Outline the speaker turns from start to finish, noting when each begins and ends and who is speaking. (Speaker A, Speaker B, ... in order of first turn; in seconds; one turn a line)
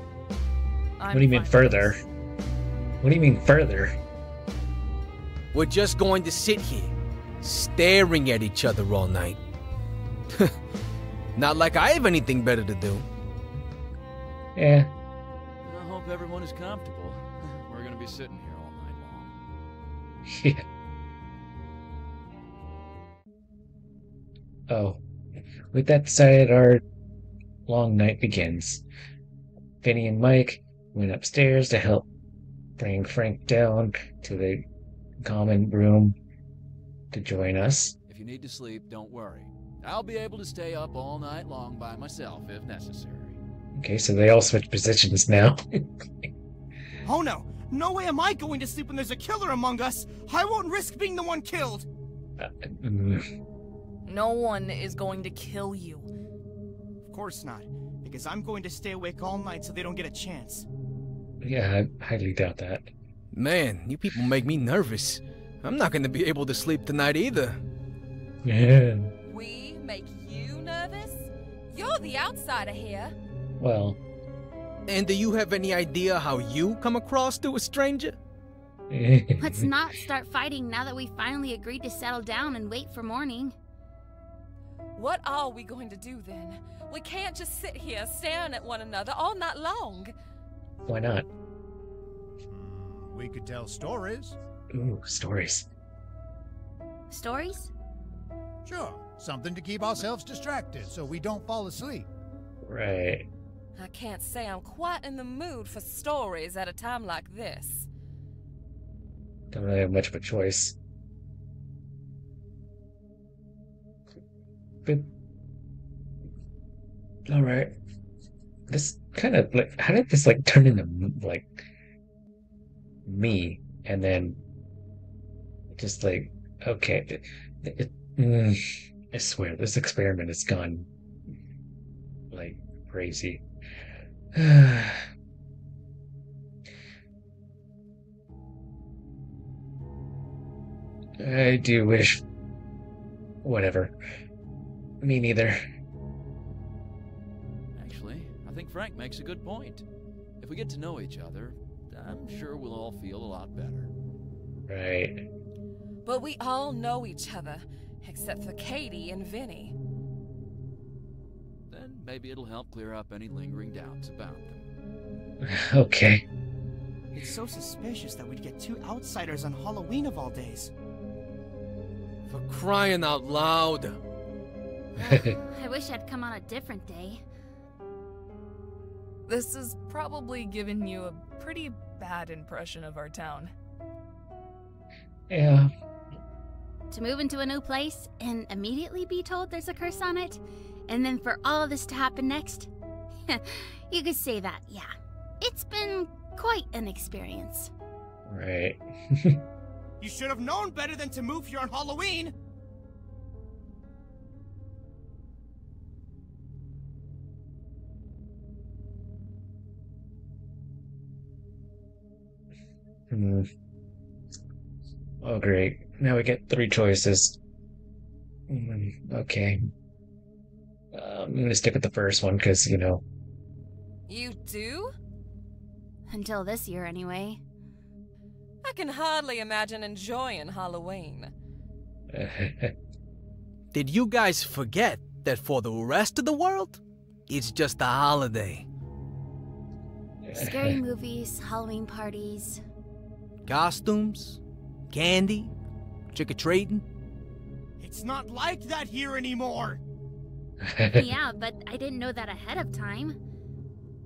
Speaker A: 1.0-2.0
Speaker B: 1.1-2.0
Speaker B: 3.0-4.0
Speaker C: 5.5-9.4
Speaker C: 11.3-13.1
Speaker B: 14.6-14.9
Speaker D: 15.6-19.4
Speaker B: 20.2-20.6
Speaker B: 24.7-25.0
Speaker B: 25.7-26.8
Speaker B: 27.6-28.8
Speaker B: 29.8-32.1
Speaker B: 32.8-34.6
Speaker B: 35.2-36.1
Speaker B: 37.1-37.9
Speaker D: 38.1-43.4
Speaker B: 43.8-45.9
Speaker E: 47.0-51.9
Speaker B: 52.4-53.2
Speaker A: 54.0-56.1
Speaker E: 57.0-60.7
Speaker B: 61.4-62.9
Speaker C: 63.3-67.6
Speaker B: 68.4-69.1
Speaker F: 69.2-73.1
Speaker B: 73.6-74.0
Speaker C: 74.9-78.2
Speaker B: 78.9-79.7
Speaker G: 79.4-83.5
Speaker F: 85.0-90.1
Speaker B: 90.8-91.3
Speaker H: 92.5-94.4
Speaker B: 94.7-95.7
Speaker G: 97.1-97.7
Speaker H: 98.6-102.1
Speaker B: 102.6-103.2
Speaker F: 103.8-107.9
Speaker B: 109.5-110.8
Speaker B: 114.8-115.1
Speaker B: 117.3-117.7
Speaker B: 118.7-121.5
Speaker B: 123.0-124.4
Speaker B: 125.7-128.6
Speaker B: 129.1-130.9
Speaker B: 132.3-133.4
Speaker B: 134.3-135.1
Speaker B: 141.2-142.2
Speaker B: 143.4-143.9
Speaker B: 145.0-145.6
Speaker D: 147.7-149.8
Speaker D: 150.4-153.9
Speaker B: 154.7-155.2
Speaker F: 156.0-159.7
Speaker D: 161.7-164.7
Speaker B: 165.4-166.2
Speaker E: 167.1-170.7
Speaker C: 172.3-174.0
Speaker G: 175.0-177.2
Speaker B: 175.1-175.3
Speaker A: 179.3-183.5
Speaker B: 185.3-185.7
Speaker G: 186.9-192.7
Speaker G: 193.3-197.7
Speaker B: 198.2-199.4
Speaker E: 200.0-202.3
Speaker B: 213.1-213.5
Speaker B: 215.2-217.4
Speaker B: 218.5-219.7
Speaker B: 220.9-223.0
Speaker F: 224.1-224.9
Speaker G: 226.1-227.4
Speaker F: 228.6-231.3
Speaker B: 232.1-232.7
Speaker C: 233.7-238.7
Speaker B: 240.2-240.8
Speaker G: 240.3-242.6
Speaker C: 243.4-245.5
Speaker C: 246.1-246.8
Speaker E: 247.8-249.8
Speaker B: 250.6-251.1
Speaker G: 250.9-253.2